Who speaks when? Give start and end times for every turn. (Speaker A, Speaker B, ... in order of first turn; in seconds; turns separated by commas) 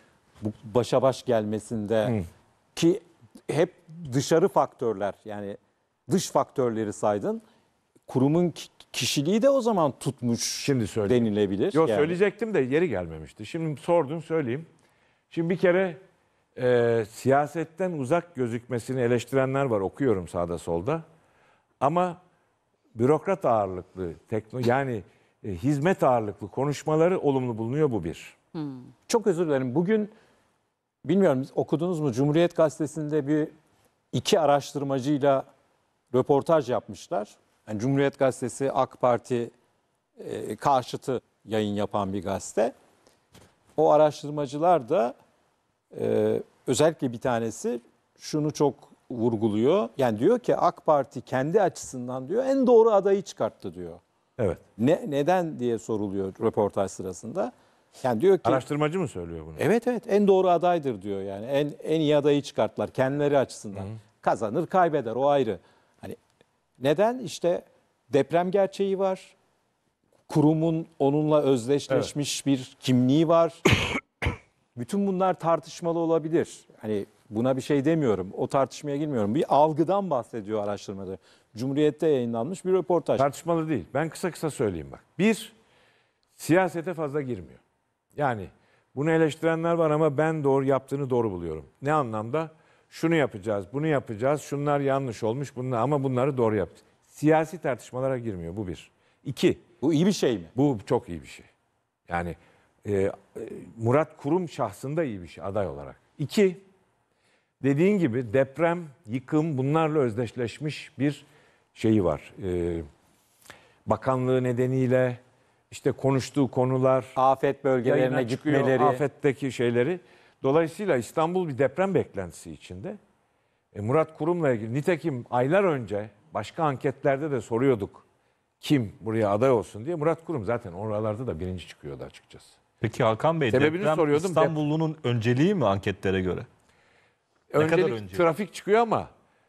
Speaker A: 0.4-2.2, Speaker A: 2.8-7.4, Speaker A: 8.1-12.2, Speaker B: 10.6-14.7, Speaker B: 15.3-16.0, Speaker B: 16.6-21.1, Speaker B: 21.8-22.2, Speaker B: 22.9-28.4, Speaker A: 29.1-30.1, Speaker A: 31.0-33.5, Speaker A: 34.1-35.5, Speaker A: 36.1-39.5, Speaker A: 40.2-42.8, Speaker A: 43.8-45.2, Speaker A: 45.9-54.0, Speaker B: 54.4-54.6, Speaker A: 54.8-58.6, Speaker B: 58.4-59.6, Speaker A: 59.6-66.2, Speaker A: 66.8-69.3, Speaker A: 70.3-73.6, Speaker A: 74.8-83.3, Speaker B: 83.2-85.5, Speaker B: 86.4-87.6, Speaker B: 88.2-99.6, Speaker A: 99.8-100.5, Speaker B: 100.5-101.5, Speaker B: 102.1-106.6, Speaker B: 107.6-112.9, Speaker B: 113.9-115.2, Speaker B: 115.7-117.2, Speaker A: 117.2-119.0, Speaker B: 117.8-123.0, Speaker B: 123.7-128.1, Speaker B: 128.6-132.6, Speaker C: 132.8-136.5, Speaker B: 133.5-134.6, Speaker B: 137.5-139.1, Speaker C: 137.6-138.2